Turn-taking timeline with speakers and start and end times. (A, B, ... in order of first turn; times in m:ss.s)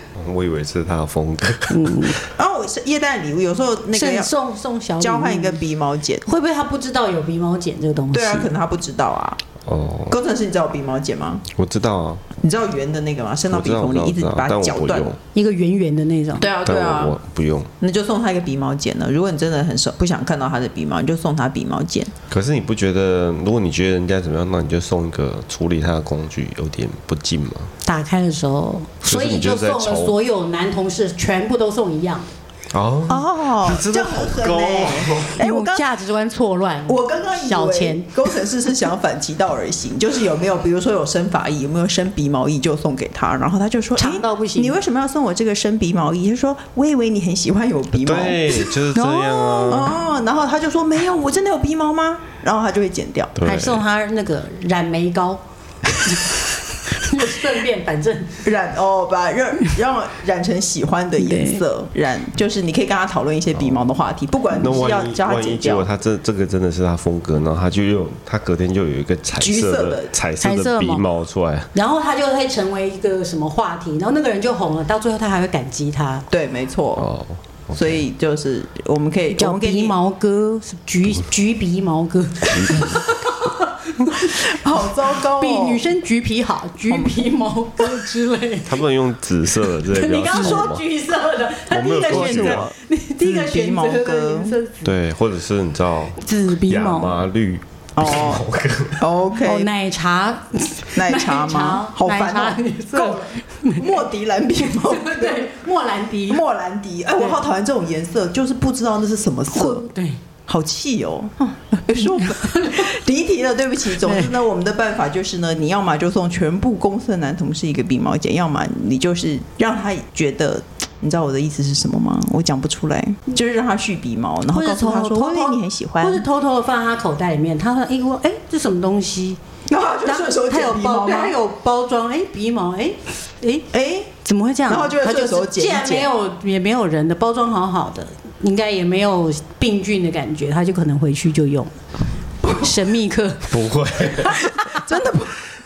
0:00.2-0:02.3 A
0:01.7-0:02.2 B
0:02.4-0:04.3 C
0:03.9-0:05.6 B
0:05.0-0:06.2 C
0:06.2-0:08.5 B
0:08.1-0:09.4 C
0:09.6-0:10.2 A
0:10.1-0:11.4 C
0:11.5-0:12.2 A
0:12.4-0:15.1 C
0:13.5-0:15.2 A
0:15.3-0:16.5 B
0:16.4-0:17.1 C
0:16.6-0:17.7 A
0:17.8-0:22.1 C
0:22.3-0:27.7 A
0:27.8-0:32.3 B
0:29.0-0:30.1 A
0:32.7-0:35.4 A
0:33.1-0:35.8 C
0:35.3-0:38.1 B
0:36.8-0:48.8 C
0:44.0-0:44.8 B
0:48.0-0:50.0 A
0:48.9-0:49.8 B
0:49.7-0:53.4 C
0:53.4-0:53.8 A
0:53.4-0:58.4 B
0:58.4-1:05.9 C
1:01.2-1:01.6 B
1:04.5-1:11.7 A
1:09.4-1:10.1 C
1:10.4-1:11.0 B
1:11.7-1:16.3 B
1:16.3-1:17.0 C
1:17.0-1:17.9 A
1:17.7-1:20.0 C
1:19.3-1:28.8 B
1:22.5-1:23.0 A
1:24.4-1:25.9 C
1:26.9-1:27.2 C
1:28.6-1:30.8 A
1:29.8-1:34.9 B
1:30.3-1:30.6 C
1:31.7-1:32.7 A
1:32.1-1:34.6 C
1:34.8-1:39.1 A
1:36.2-1:37.2 B
1:38.0-1:38.4 C
1:39.0-1:39.7 C
1:39.3-1:44.0 B
1:41.0-1:45.5 C
1:44.6-1:46.4 B
1:46.3-1:49.9 C
1:47.2-1:47.4 B
1:49.5-1:50.2 B
1:50.5-2:06.2 C
1:52.2-1:52.9 B
1:54.0-1:54.3 B
2:04.5-2:09.4 B
2:09.7-2:11.4 C
2:10.0-2:13.6 B
2:13.7-2:14.1 C
2:14.2-2:21.8 B
2:14.7-2:16.1 C
2:22.4-2:23.5 B
2:23.5-2:24.4 A
2:24.2-2:24.9 B
2:24.8-2:25.4 C